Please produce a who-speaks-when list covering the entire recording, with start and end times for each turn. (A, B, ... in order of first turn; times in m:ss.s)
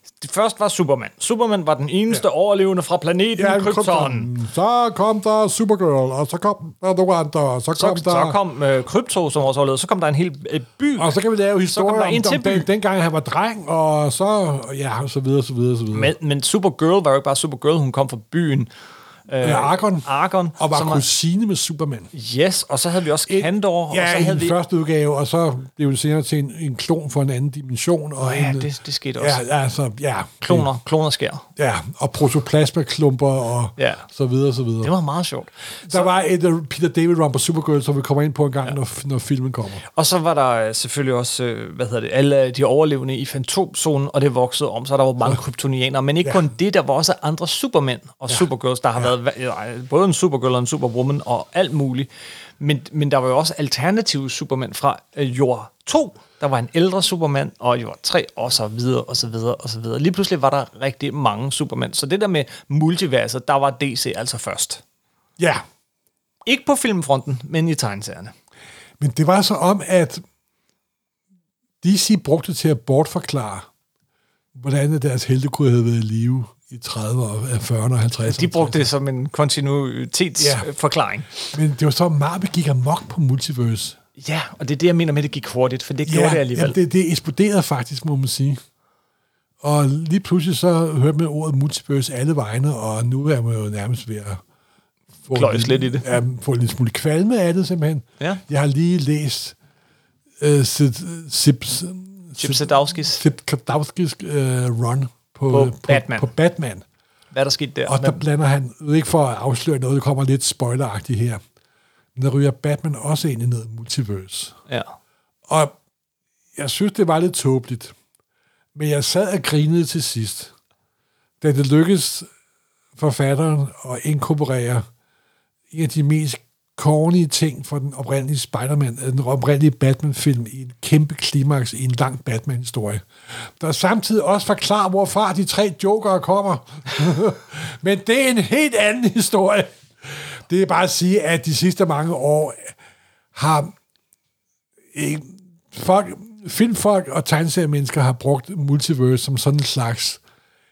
0:00.2-0:04.3 A
0:03.4-0:08.4 B
0:07.8-0:11.1 A
0:11.0-0:16.1 B
0:11.7-0:12.7 A
0:15.9-0:18.7 A
0:19.3-0:21.0 A
0:19.4-0:22.1 B
0:22.1-0:24.6 A
0:23.3-0:30.7 B
0:28.2-0:29.4 A
0:30.4-0:31.4 A
0:31.6-0:34.9 B
0:33.8-0:34.0 A
0:34.8-0:36.1 A
0:35.9-0:39.8 B
0:39.9-0:52.1 A
0:52.6-1:04.8 A
1:05.4-1:05.6 B
1:06.4-1:08.3 A
1:09.0-1:10.2 B
1:11.8-1:13.7 B
1:14.5-1:18.9 B
1:18.2-1:21.3 A
1:20.4-1:20.7 B
1:21.5-1:24.0 B
1:24.2-1:26.8 A
1:26.0-1:28.6 B
1:29.6-1:34.4 B
1:35.2-1:39.6 B
1:35.3-1:36.1 A
1:40.4-1:46.8 B
1:42.4-1:43.2 A
1:45.5-1:46.3 A
1:47.3-1:48.2 A
1:47.9-1:51.4 B
1:52.2-1:54.6 B
1:55.5-1:55.7 B
1:56.6-1:57.9 B
1:58.7-2:00.5 B
2:01.4-2:02.3 B
2:03.0-2:04.9 B
2:05.7-2:22.7 B
2:23.3-2:23.7 B
2:24.9-2:30.2 B